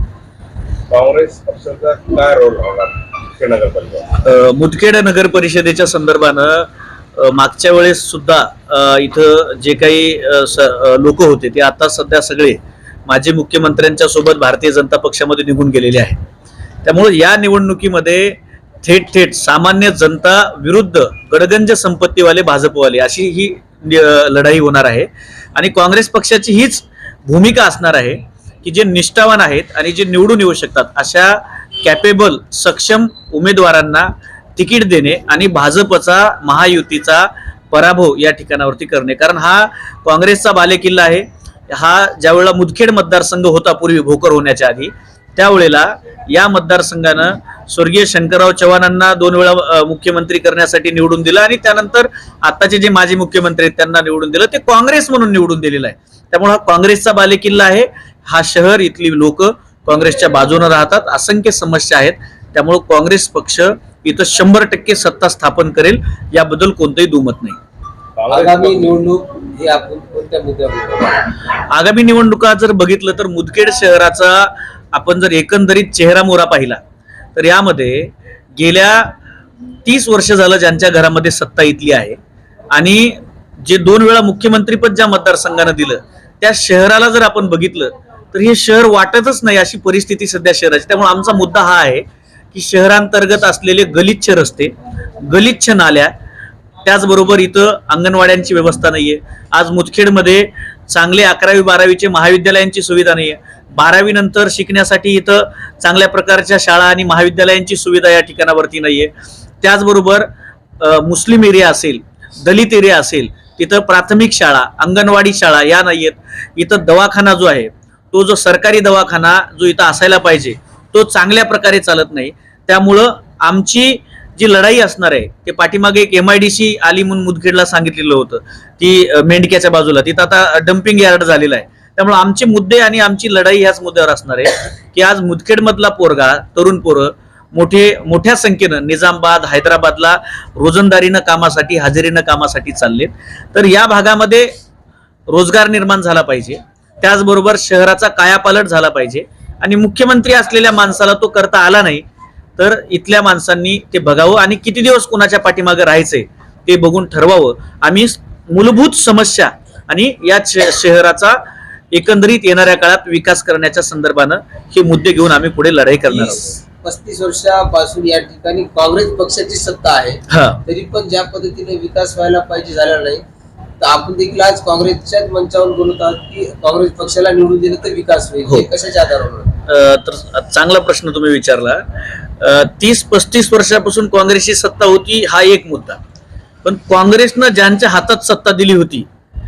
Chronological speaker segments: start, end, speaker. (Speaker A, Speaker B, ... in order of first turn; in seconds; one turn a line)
Speaker A: 0.9-4.1
Speaker B: 4.2-16.2
Speaker B: 16.8-67.6
Speaker A: 68.2-69.0
Speaker C: 68.3-71.3
Speaker B: 71.7-76.8
Speaker B: 77.3-79.1
Speaker B: 79.8-82.2
Speaker B: 82.7-96.1
Speaker B: 96.8-110.3
Speaker B: 110.8-144.5
Speaker B: 145.3-152.0
Speaker B: 152.6-161.4
Speaker B: 161.9-166.5
Speaker C: 166.1-173.2
Speaker B: 170.3-170.6
Speaker C: 173.8-179.5
Speaker B: 179.7-186.0
Speaker B: 186.6-189.1